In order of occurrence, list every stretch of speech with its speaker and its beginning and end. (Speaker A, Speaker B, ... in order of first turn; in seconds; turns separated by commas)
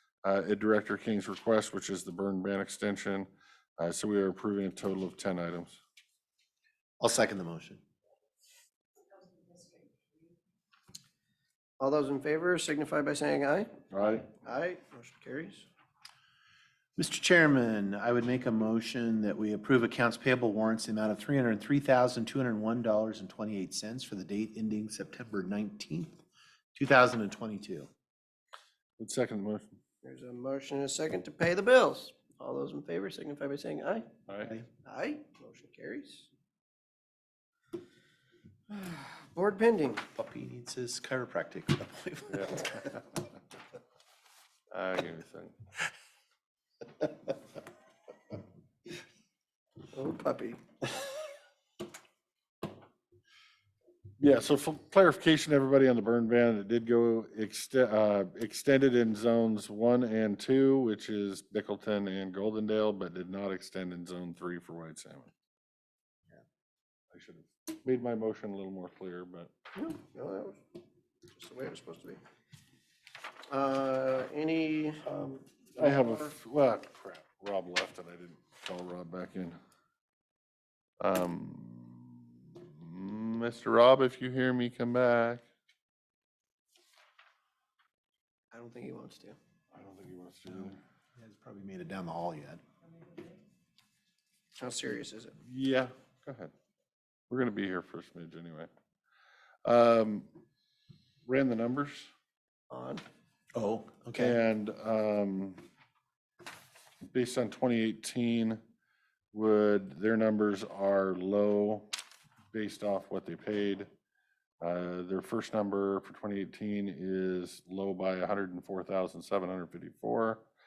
Speaker A: 0.2-5.8, Speaker B: 7.0-7.8, Speaker C: 11.8-13.7, Speaker A: 13.9-14.3, Speaker C: 14.4-15.7, Speaker B: 17.0-26.2, Speaker B: 26.8-27.9, Speaker A: 29.0-29.8, Speaker C: 30.0-34.1, Speaker C: 34.8-36.3, Speaker C: 38.7-40.0, Speaker B: 40.1-42.8, Speaker A: 42.3-43.0, Speaker A: 44.7-45.5, Speaker C: 49.9-51.1, Speaker A: 54.2-65.3, Speaker A: 67.1-69.5, Speaker C: 69.7-70.6, Speaker C: 71.3-72.2, Speaker C: 73.5-76.3, Speaker A: 75.8-79.6, Speaker A: 81.0-85.4, Speaker C: 88.5-89.4, Speaker A: 89.7-90.8, Speaker B: 90.5-93.1, Speaker C: 94.6-95.4, Speaker A: 95.4-96.5, Speaker A: 97.3-98.7, Speaker A: 99.7-100.3, Speaker A: 101.3-102.1, Speaker C: 102.7-103.0, Speaker B: 103.5-104.4, Speaker A: 104.2-105.6, Speaker A: 107.1-108.6, Speaker A: 109.3-111.9, Speaker A: 112.5-113.9, Speaker A: 114.6-120.5